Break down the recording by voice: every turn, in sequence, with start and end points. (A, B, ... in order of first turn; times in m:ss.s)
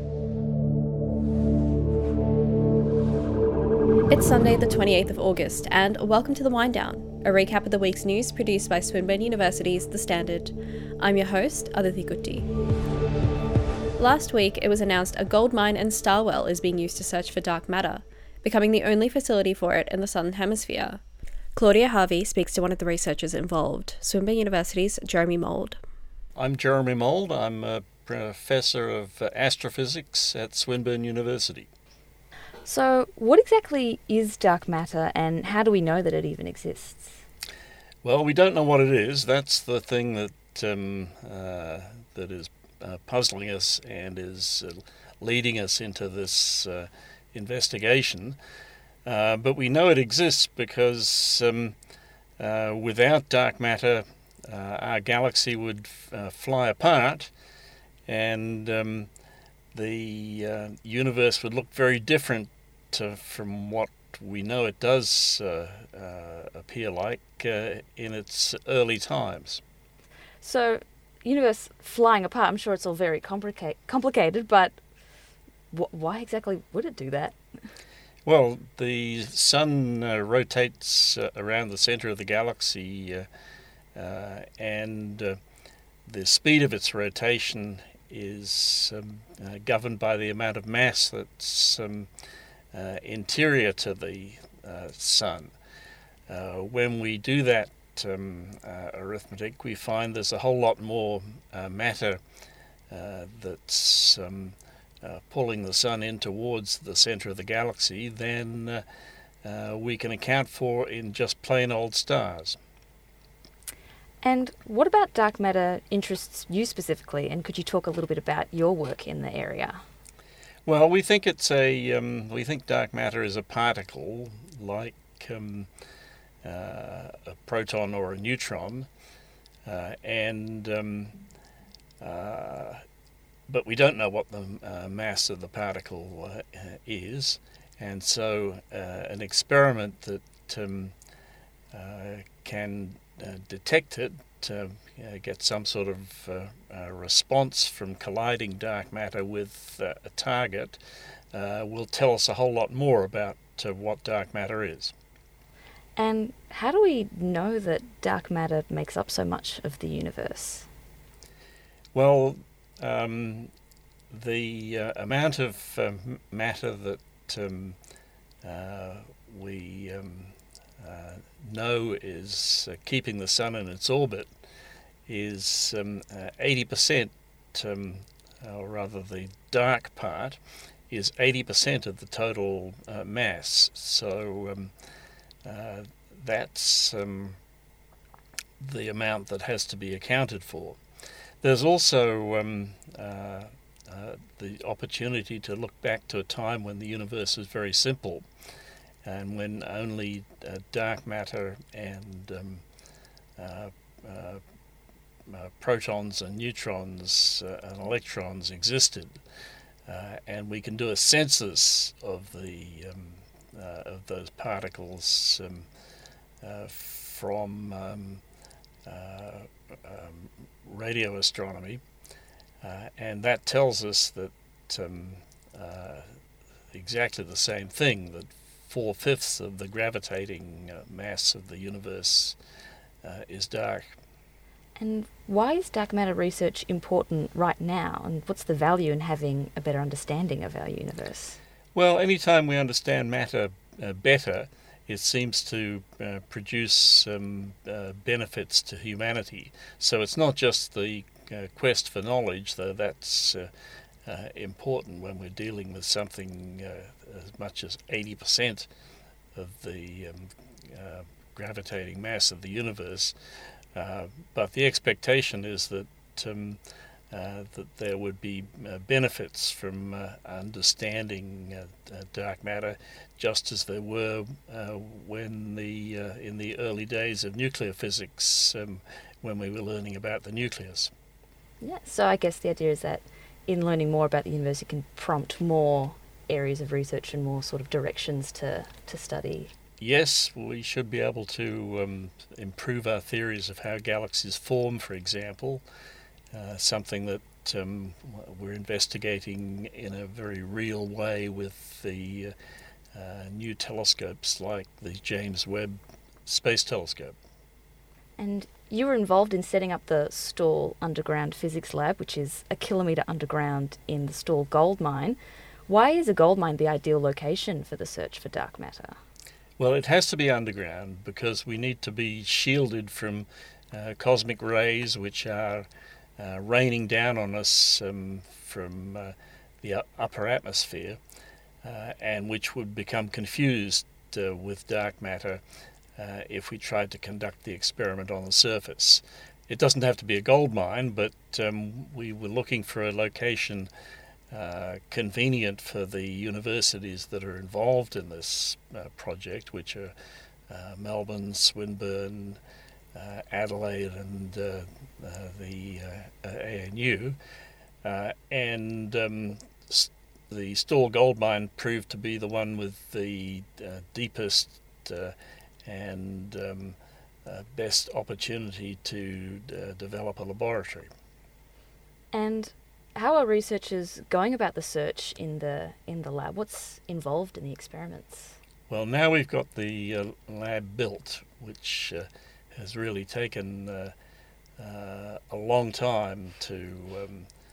0:04.1-0:12.5 A
0:14.0-0:21.0 A
0:21.5-0:25.8 A
0:26.4-0:31.7 B
0:32.6-0:37.2 C
0:38.0-0:48.4 B
0:49.1-0:51.8 B
0:52.4-0:57.3 B
0:58.1-0:59.1 B
0:59.7-1:09.6 B
1:10.4-1:14.8 C
1:15.7-1:17.4 C
1:18.2-1:23.3 B
1:24.0-1:25.4 B
1:26.1-1:32.1 B
1:32.7-1:35.5 B
1:36.3-1:42.2 B
1:42.9-1:48.8 B
1:49.4-1:52.6 B
1:54.2-1:59.8 C
2:00.7-2:05.7 B
2:06.4-2:08.9 B
2:09.7-2:11.2 B
2:12.0-2:12.8 B
2:13.5-2:20.9 B
2:21.7-2:30.8 B
2:31.3-2:34.9 B
2:36.0-2:40.7 C
2:41.9-2:43.5 B
2:44.1-2:47.8 B
2:48.4-2:54.3 B
2:55.1-3:04.7 B
3:05.4-3:07.4 B
3:08.6-3:10.8 B
3:11.4-3:18.3 B
3:19.0-3:22.6 B
3:23.4-3:24.4 B
3:25.3-3:29.2 B
3:29.9-3:35.7 B
3:36.4-3:38.2 B
3:38.9-3:41.8 B
3:42.6-3:46.2 B
3:46.7-3:52.4 B
3:53.0-3:54.0 B
3:54.8-4:01.4 C
4:01.8-4:13.5 B
4:14.1-4:18.7 B
4:19.4-4:23.2 B
4:23.8-4:26.6 B
4:27.1-4:40.9 B
4:41.6-4:49.5 C
4:49.8-4:55.6 B
4:56.3-5:02.3 B
5:02.9-5:07.2 B
5:08.2-5:19.0 C
5:19.6-5:31.0 B
5:31.6-5:35.4 B
5:36.0-5:43.7 B
5:44.3-5:49.9 B
5:50.5-5:52.4 B
5:52.9-5:57.2 B
5:57.8-6:05.2 B
6:05.7-6:10.9 B
6:12.1-6:18.3 C
6:18.7-6:23.9 B
6:24.6-6:27.3 B